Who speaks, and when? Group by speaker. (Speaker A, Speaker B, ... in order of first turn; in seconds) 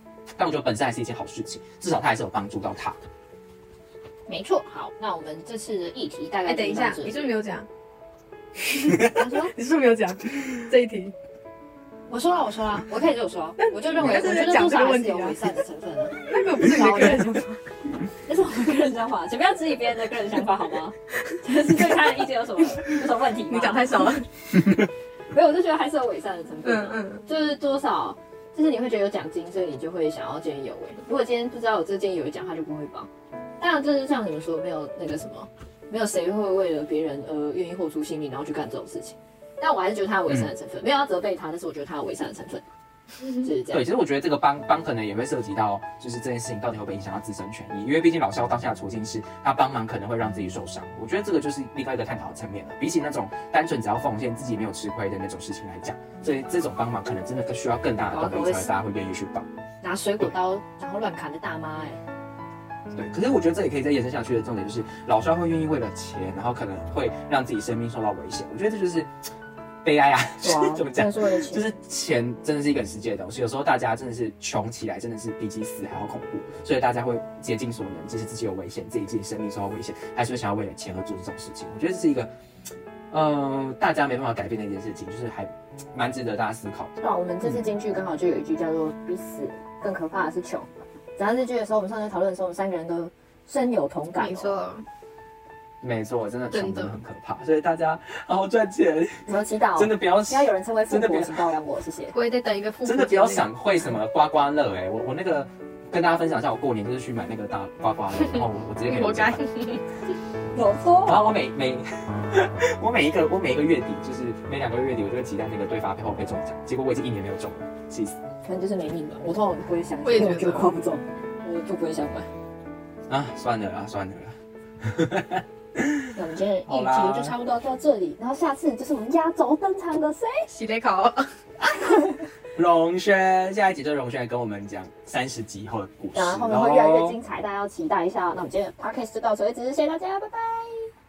Speaker A: 0.4-3.0, 43.7-59.4, 62.9-69.1, 69.8-82.3, 83.1-86.9, 95.8-99.2, 99.8-101.4, 102.8-109.5, 111.0-118.2, 123.1-126.1, 126.7-127.3, 132.5-137.2
Speaker B: 4.3-7.3, 9.0-9.5, 12.1-17.2, 18.2-24.1, 25.3-33.1, 33.6-42.6, 43.4-43.9, 58.1-58.7, 59.8-62.0, 70.4-71.6, 87.0-94.6, 99.3-102.1, 110.5-111.4, 118.4-122.3, 126.1-130.5, 136.1-140.9
Speaker C: 6.5-7.7, 8.7-11.1, 13.6-15.4, 16.3-17.6, 23.5-24.2, 26.6-27.2, 94.2-94.8, 96.5-97.0, 102.1-103.5, 108.9-109.8, 120.0-120.7, 130.5-131.2